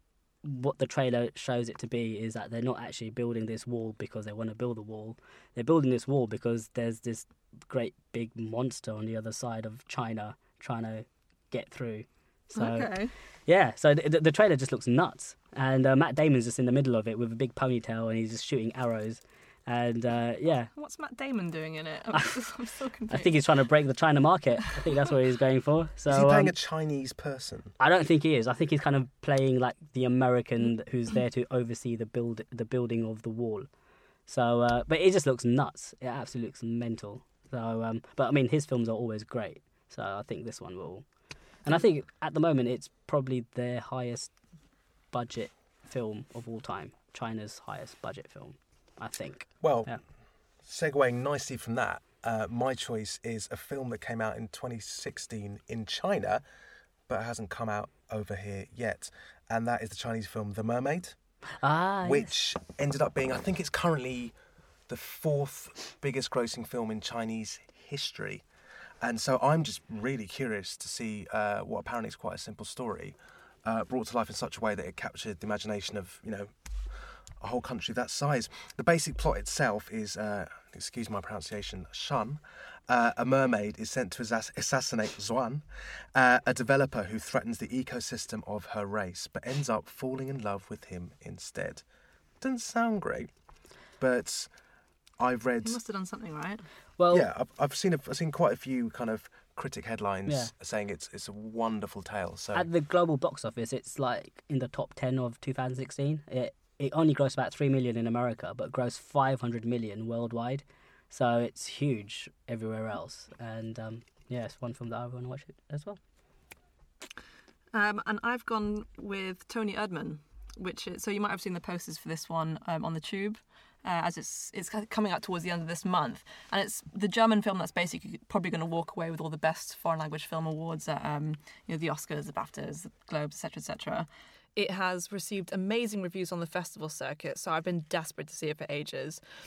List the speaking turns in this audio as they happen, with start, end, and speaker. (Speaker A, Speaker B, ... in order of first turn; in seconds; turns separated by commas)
Speaker A: 0.4-12.9, Speaker B: 12.5-13.1, Speaker A: 13.5-20.7, Speaker B: 20.7-23.4, Speaker A: 23.1-26.5, Speaker C: 26.1-27.7, Speaker A: 27.8-33.7, Speaker A: 34.3-41.0, Speaker A: 41.6-44.3, Speaker A: 45.1-50.0, Speaker C: 49.6-49.9, Speaker C: 50.6-56.4, Speaker C: 57.1-61.1, Speaker A: 61.6-62.3, Speaker C: 62.0-64.3, Speaker C: 64.9-68.4, Speaker C: 69.0-76.5, Speaker C: 77.4-91.8, Speaker C: 92.4-93.3, Speaker C: 94.0-94.5, Speaker C: 95.2-95.8, Speaker B: 95.6-96.6, Speaker A: 97.0-97.3, Speaker C: 97.1-102.7, Speaker A: 102.5-116.0, Speaker B: 117.7-139.2